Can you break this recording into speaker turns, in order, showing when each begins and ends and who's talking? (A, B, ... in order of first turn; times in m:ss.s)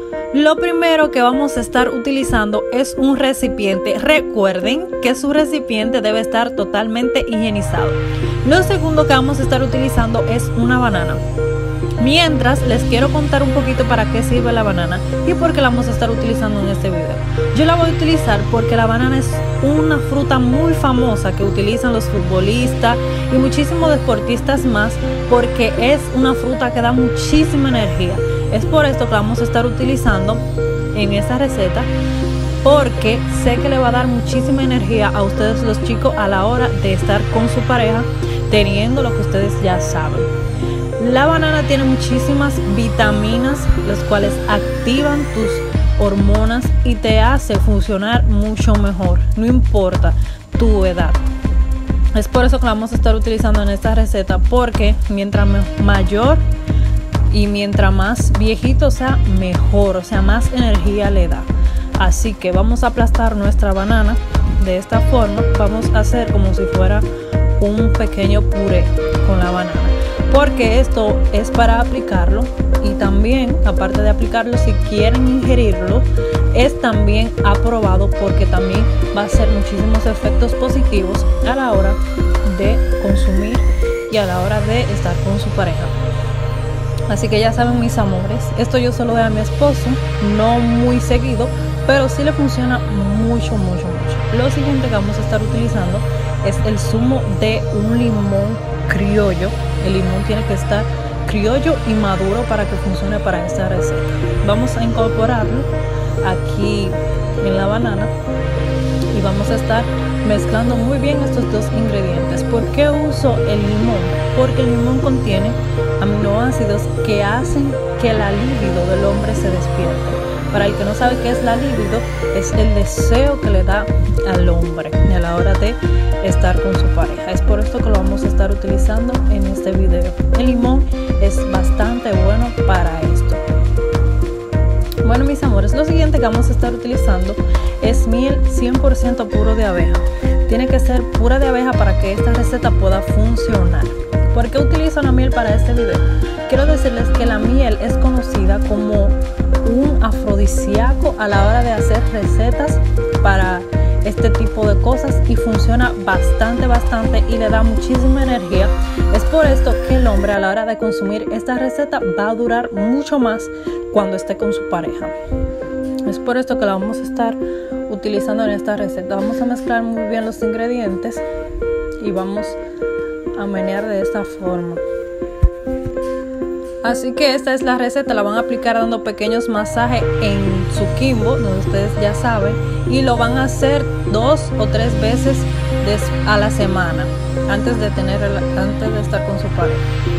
0:00.3-0:11.2 A
0:12.0-0:31.9 A
0:32.6-0:40.3 A
0:41.0-0:51.2 A
0:52.1-0:56.4 A
0:57.3-1:07.1 A
1:07.6-1:26.0 A
1:27.1-1:45.7 A
1:46.2-1:48.1 A
1:49.1-2:13.4 A
2:15.0-2:45.1 A
2:46.0-2:51.2 A
2:52.0-2:52.6 A
2:53.3-2:54.8 A
2:56.8-3:09.9 A